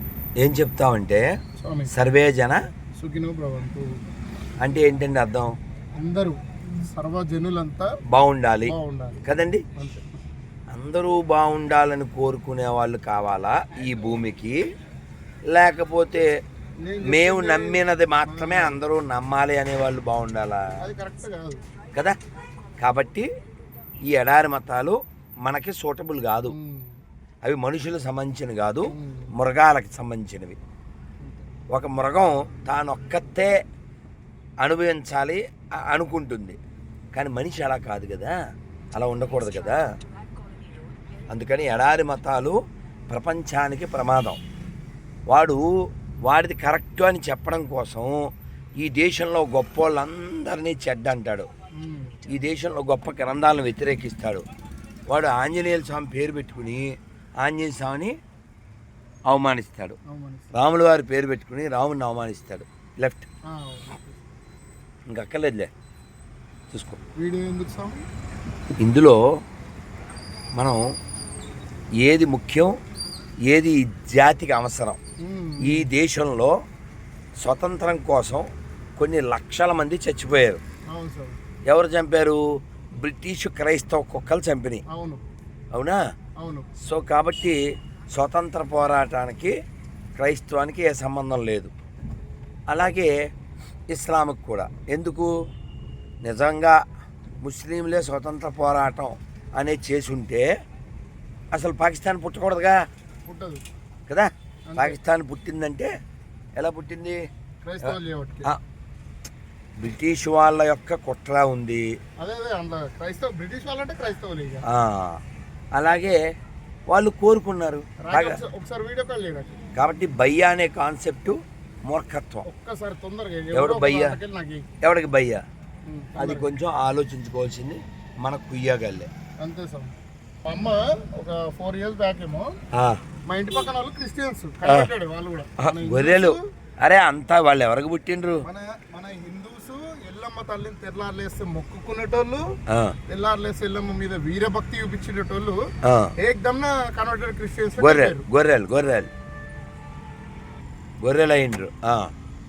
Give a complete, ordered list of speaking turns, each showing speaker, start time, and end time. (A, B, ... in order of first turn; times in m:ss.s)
0:00.4-0:01.3 A
0:01.6-0:01.9 B
0:01.9-0:02.6 A
0:03.0-0:04.0 B
0:04.6-0:05.6 A
0:06.0-0:08.0 B
0:08.1-0:08.7 A
0:08.7-0:10.1 B
0:09.2-0:09.6 A
0:10.7-0:14.6 A
0:15.5-0:16.3 A
0:16.8-0:18.8 B
0:17.0-0:20.7 A
0:20.8-0:21.6 B
0:22.8-0:23.3 A
0:24.0-0:26.6 A
0:26.5-0:27.0 B
0:27.4-0:30.6 A
0:28.9-0:29.3 B
0:31.7-0:33.5 A
0:34.6-0:36.6 A
0:37.1-0:38.4 A
0:38.9-0:39.8 A
0:41.3-0:42.6 A
0:43.1-0:44.4 A
0:45.3-0:45.7 A
0:46.2-0:51.5 A
0:51.8-0:52.2 B
0:52.3-0:54.4 A
0:55.1-0:58.1 A
0:59.3-1:00.0 A
1:00.1-1:00.6 B
1:00.5-1:03.3 A
1:03.5-1:04.2 B
1:05.1-1:05.7 A
1:06.7-1:07.0 A
1:07.2-1:08.0 B
1:08.8-1:09.2 A
1:10.6-1:10.8 A
1:12.0-1:12.7 A
1:13.5-1:15.0 A
1:15.2-1:15.9 B
1:15.6-1:16.5 A
1:17.4-1:18.5 A
1:19.0-1:20.6 A
1:20.9-1:21.4 B
1:21.7-1:22.4 A
1:23.0-1:24.8 A
1:24.9-1:25.2 B
1:25.7-1:26.0 A
1:26.4-1:26.7 B
1:26.8-1:27.6 A
1:28.2-1:29.5 A
1:30.2-1:31.7 A
1:32.7-1:33.1 A
1:33.9-1:35.3 A
1:36.2-1:36.8 A
1:37.4-1:40.4 A
1:41.5-1:42.8 A
1:43.3-1:43.6 B
1:44.1-1:45.9 A
1:44.7-1:45.0 B
1:46.6-1:47.2 A
1:47.6-1:48.5 B
1:49.8-1:51.8 A
1:52.2-1:54.6 B
1:54.7-1:55.2 A
1:55.7-1:56.2 A
1:56.9-1:58.4 A
1:58.0-1:59.6 B
1:59.8-2:02.4 A
2:02.5-2:04.6 B
2:03.5-2:04.2 A
2:04.8-2:05.4 A
2:05.9-2:06.5 B
2:06.2-2:09.1 A
2:09.4-2:12.6 B
2:12.7-2:13.0 A
2:13.3-2:16.4 B
2:14.6-2:14.9 A
2:15.6-2:18.4 A
2:18.4-2:22.5 B
2:23.1-2:25.6 B
2:25.8-2:26.1 A
2:26.2-2:28.2 B
2:27.8-2:29.1 A
2:31.0-2:32.1 A